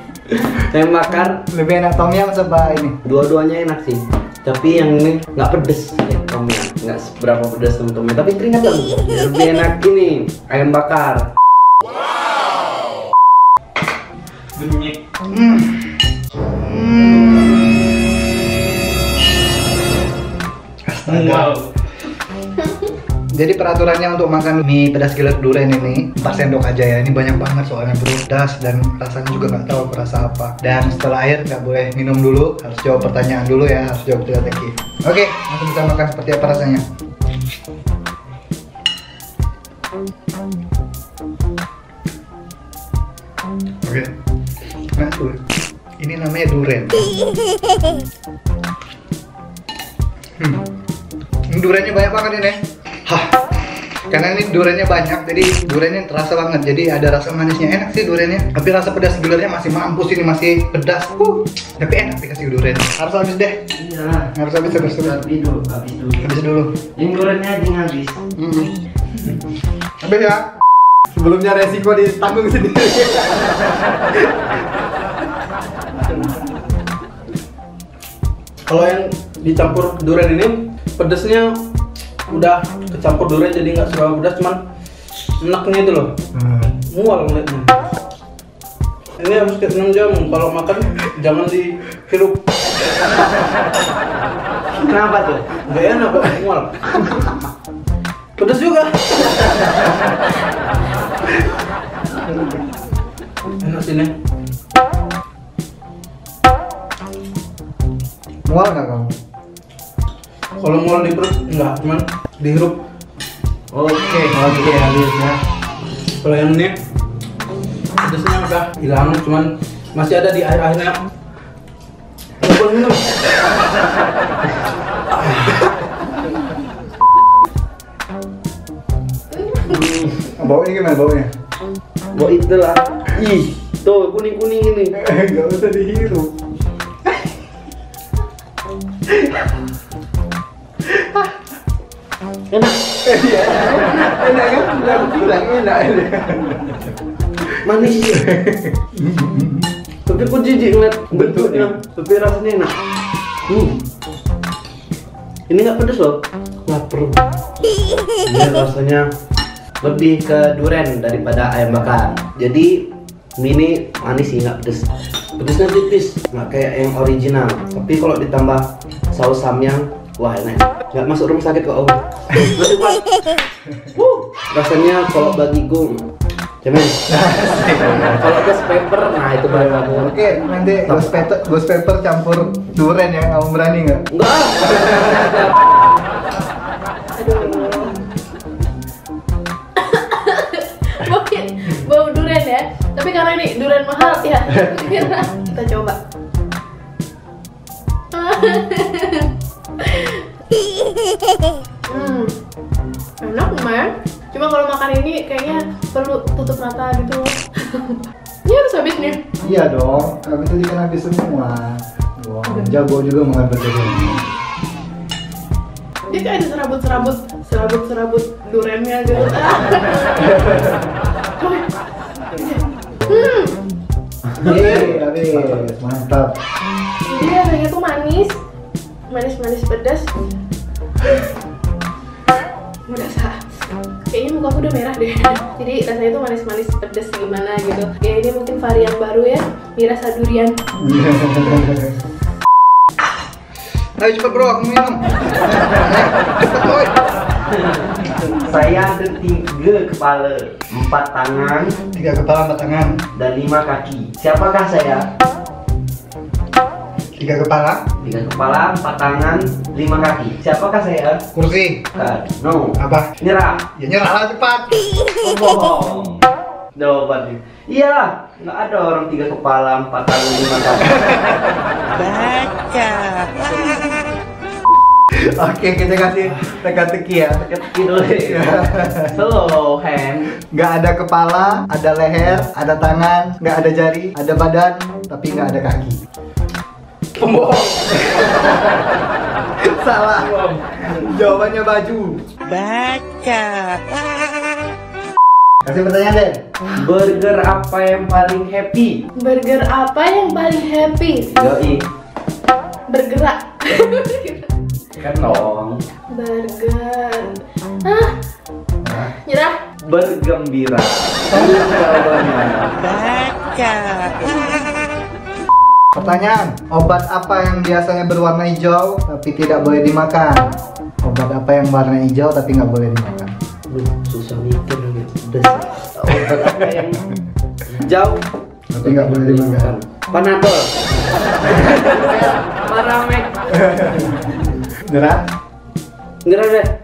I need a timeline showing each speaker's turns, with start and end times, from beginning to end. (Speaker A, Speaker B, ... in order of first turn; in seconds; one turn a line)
Speaker A: 0.3-1.4
Speaker B: 1.5-3.0
Speaker A: 3.0-11.2
Speaker C: 14.6-15.0
Speaker B: 15.3-17.9
Speaker B: 20.9-21.5
Speaker C: 21.1-21.7
Speaker B: 23.3-36.8
Speaker B: 43.8-44.1
Speaker B: 45.0-45.4
Speaker B: 46.0-47.1
Speaker B: 50.4-50.7
Speaker B: 51.5-53.4
Speaker B: 54.1-63.6
Speaker A: 63.7-66.3
Speaker B: 64.3-65.2
Speaker B: 66.2-66.7
Speaker A: 66.9-68.2
Speaker B: 68.3-68.7
Speaker B: 70.0-70.5
Speaker B: 71.1-74.5
Speaker C: 78.7-81.5
Speaker C: 82.3-84.6
Speaker C: 85.4-86.1
Speaker B: 86.3-86.7
Speaker C: 86.9-87.9
Speaker C: 89.2-92.5
Speaker A: 94.7-95.5
Speaker C: 95.7-97.3
Speaker C: 98.4-99.9
Speaker C: 103.6-104.1
Speaker B: 108.5-109.1
Speaker C: 110.6-112.8
Speaker A: 113.7-114.9
Speaker B: 114.3-115.4
Speaker C: 116.2-116.7
Speaker C: 118.0-121.0
Speaker C: 122.4-123.1
Speaker C: 125.1-125.6
Speaker D: 129.3-129.8
Speaker A: 129.7-130.3
Speaker B: 130.3-131.3
Speaker A: 132.1-134.9
Speaker B: 135.0-136.3
Speaker B: 140.9-141.3
Speaker A: 142.5-142.8
Speaker B: 143.0-146.9
Speaker A: 144.8-145.2
Speaker A: 147.6-148.2
Speaker B: 148.1-149.7
Speaker A: 150.1-152.8
Speaker B: 151.1-151.7
Speaker A: 153.4-153.8
Speaker A: 155.5-157.2
Speaker A: 158.2-159.1
Speaker A: 159.8-173.1
Speaker B: 172.3-172.6
Speaker A: 174.0-176.1
Speaker A: 176.6-177.0
Speaker B: 177.1-178.3
Speaker A: 178.0-180.2
Speaker B: 179.5-184.0
Speaker A: 180.8-181.4
Speaker A: 184.1-185.5
Speaker D: 187.2-187.9
Speaker D: 189.8-196.0
Speaker D: 198.1-200.2
Speaker D: 201.9-202.3
Speaker D: 203.2-209.2
Speaker B: 209.4-214.3
Speaker D: 216.1-220.6
Speaker B: 220.2-220.8
Speaker D: 221.4-221.7
Speaker D: 222.3-223.6
Speaker A: 224.4-224.7
Speaker B: 224.4-226.3
Speaker D: 224.4-224.9
Speaker D: 227.1-228.4
Speaker D: 229.1-230.1
Speaker D: 232.9-233.4
Speaker D: 234.1-240.6
Speaker B: 240.8-241.9
Speaker B: 244.0-247.0
Speaker A: 248.4-251.8
Speaker B: 251.9-253.0
Speaker A: 253.1-255.0
Speaker B: 257.2-257.8
Speaker A: 258.0-261.2
Speaker B: 261.3-261.8
Speaker A: 261.9-263.6
Speaker B: 262.8-263.1
Speaker B: 263.8-264.9
Speaker A: 265.2-271.1
Speaker B: 270.8-271.6
Speaker B: 275.1-277.5
Speaker A: 277.4-280.3
Speaker B: 278.2-279.1
Speaker B: 280.5-286.0
Speaker C: 287.1-288.9
Speaker B: 289.6-292.2
Speaker C: 290.2-290.6
Speaker B: 295.6-296.4
Speaker A: 296.8-299.0
Speaker D: 299.2-301.3
Speaker A: 301.3-301.8
Speaker D: 302.9-304.5
Speaker A: 304.9-305.8
Speaker D: 306.1-308.2
Speaker B: 308.8-309.1
Speaker D: 309.0-309.6
Speaker A: 309.9-313.0
Speaker B: 315.9-320.5
Speaker B: 321.0-323.3
Speaker A: 323.7-327.0
Speaker A: 327.7-328.2
Speaker B: 328.7-329.7
Speaker A: 328.8-330.7
Speaker A: 331.4-333.8
Speaker B: 333.6-335.2
Speaker A: 336.2-336.7